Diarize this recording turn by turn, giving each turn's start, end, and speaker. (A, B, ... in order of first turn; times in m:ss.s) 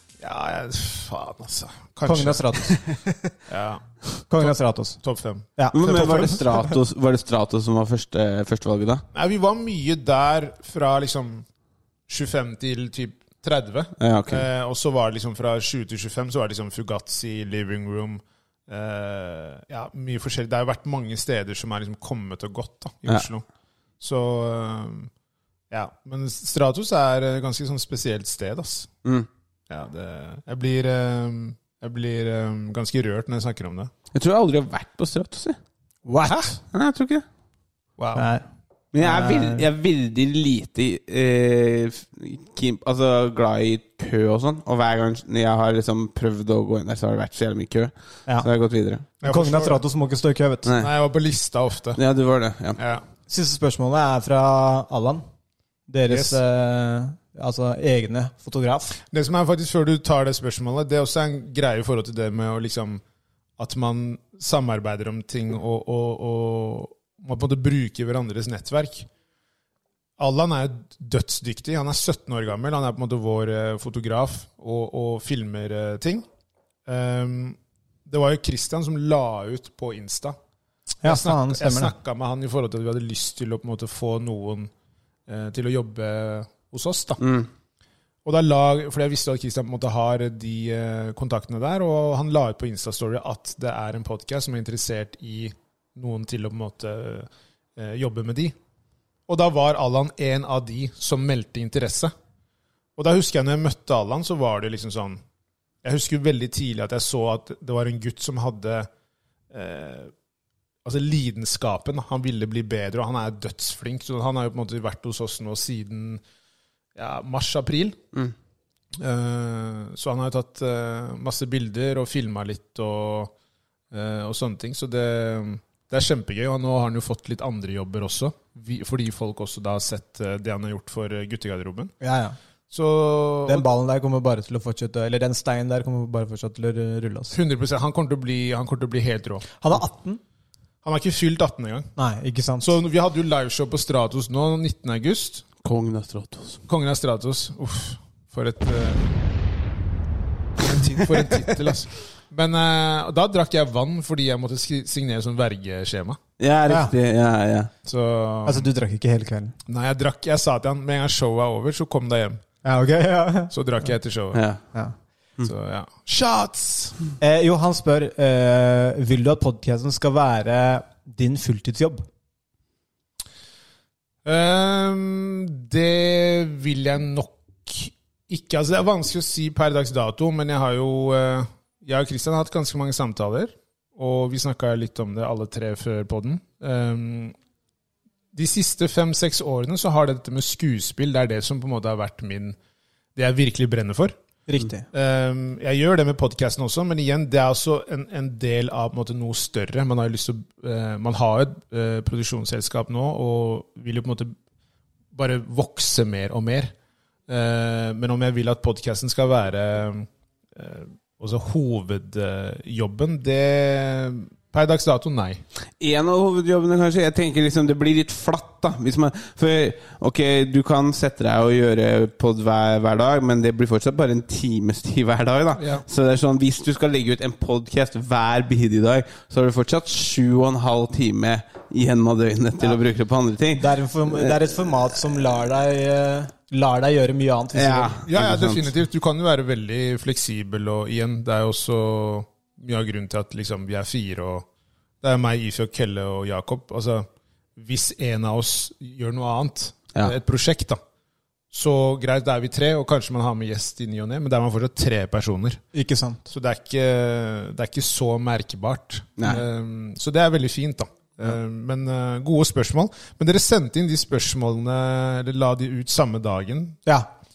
0:00.2-0:02.7 A
0:02.0-0:02.9 B
0:03.5-0:06.5 A
0:04.3-0:05.0 B
0:05.6-0:06.4 B
0:05.7-0:09.0 C
0:09.1-0:11.5 A
0:12.1-0:23.5 A
0:14.0-0:14.4 C
0:24.0-0:25.1 A
0:25.7-0:28.9 A
0:29.7-0:33.9 A
0:34.1-0:35.6 C
0:36.1-0:36.6 B
0:36.3-0:36.5 A
0:36.7-0:37.2 C
0:38.0-0:38.3 A
0:38.2-0:38.4 B
0:38.9-0:49.1 C
0:39.0-0:39.6 B
0:49.2-0:49.8 A
0:49.2-0:50.7 B
0:50.6-0:50.9 C
0:50.8-0:52.0 A
0:52.0-0:52.8 C
0:52.8-0:53.0 A
0:53.3-0:55.2 B
0:55.9-0:59.0 B
0:56.1-0:56.4 A
0:59.1-1:03.0 A
1:03.6-1:09.1 A
1:10.2-1:16.2 A
1:16.9-1:20.4 A
1:21.0-1:21.9 B
1:21.0-1:24.7 A
1:25.3-1:27.2 A
1:27.2-1:27.5 C
1:28.2-1:38.6 A
1:39.3-1:42.1 A
1:43.0-1:45.2 A
1:45.8-1:48.9 A
1:49.5-1:50.1 A
1:50.8-1:56.2 A
1:57.0-1:58.0 A
1:59.0-2:03.3 A
2:03.9-2:11.9 A
2:12.0-2:12.4 B
2:12.7-2:13.7 A
2:13.4-2:17.4 B
2:17.3-2:19.5 A
2:19.6-2:20.2 B
2:20.8-2:21.9 A
2:22.0-2:22.7 B
2:22.6-2:25.5 A
2:25.6-2:26.6 C
2:26.7-2:29.2 A
2:30.6-2:36.2 A
2:36.4-2:37.7 C
2:36.7-2:36.9 B
2:37.8-2:38.7 A
2:38.5-2:39.6 B
2:39.7-2:42.4 A
2:42.6-2:43.5 B
2:43.5-2:44.4 A
2:44.3-2:44.6 C
2:45.4-2:47.0 A
2:47.2-2:52.0 B
2:54.2-3:07.4 A
3:08.3-3:12.6 A
3:13.2-3:14.2 A
3:14.5-3:14.8 B
3:14.9-3:24.4 A
3:25.1-3:26.7 A
3:27.3-3:35.4 A
3:35.8-3:54.4 C
3:45.6-3:45.8 A
3:53.6-3:57.9 B
3:57.6-3:58.7 C
3:58.0-4:04.5 A
4:05.0-4:10.8 A
4:11.5-4:15.6 A
4:15.7-4:16.2 B
4:16.3-4:26.8 A
4:19.2-4:19.4 C